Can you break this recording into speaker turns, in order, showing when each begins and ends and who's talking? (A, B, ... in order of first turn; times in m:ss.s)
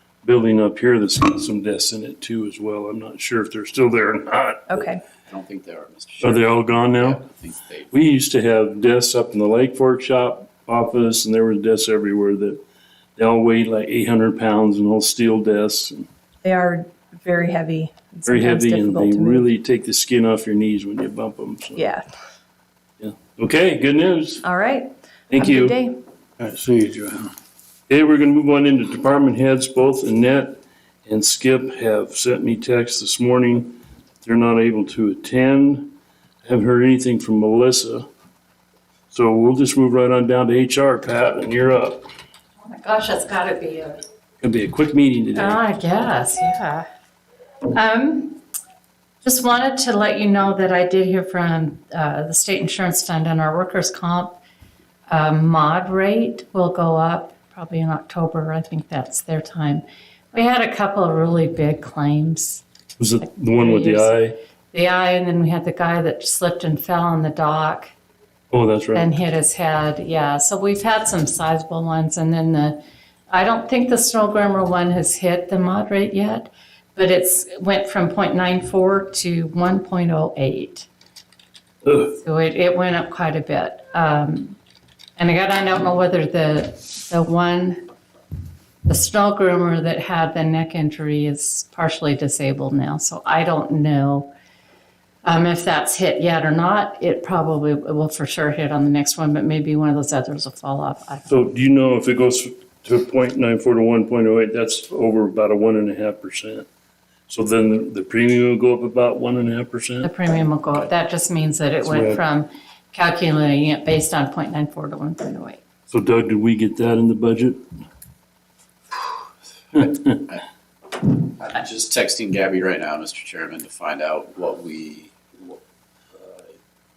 0:00.2-0:04.6 A
0:04.7-0:05.0 B
0:05.3-0:07.9 C
0:06.2-0:07.2 A
0:07.9-0:12.6 A
0:13.2-0:16.1 A
0:16.4-0:19.4 B
0:18.2-0:21.9 A
0:21.8-0:22.0 B
0:23.0-0:24.5 A
0:24.4-0:26.0 B
0:25.3-0:25.8 A
0:26.4-0:27.3 A
0:27.9-0:38.1 A
0:39.1-0:42.0 A
0:42.6-0:44.0 D
0:44.4-0:45.6 A
0:45.3-0:46.8 D
0:47.7-0:48.4 D
0:49.2-0:54.4 D
0:55.1-1:02.6 D
1:03.0-1:04.3 A
1:03.4-1:04.1 D
1:04.7-1:07.9 D
1:08.5-1:09.1 A
1:08.9-1:20.9 D
1:21.8-1:22.1 A
1:22.1-1:24.6 D
1:25.2-1:27.8 D
1:28.8-1:34.3 D
1:35.2-1:41.4 D
1:41.3-1:46.6 A
1:47.3-1:50.1 A
1:50.0-1:55.6 D
1:51.8-1:52.2 A
1:55.9-1:57.6 A
2:01.0-2:05.6 C
2:06.1-2:06.5 C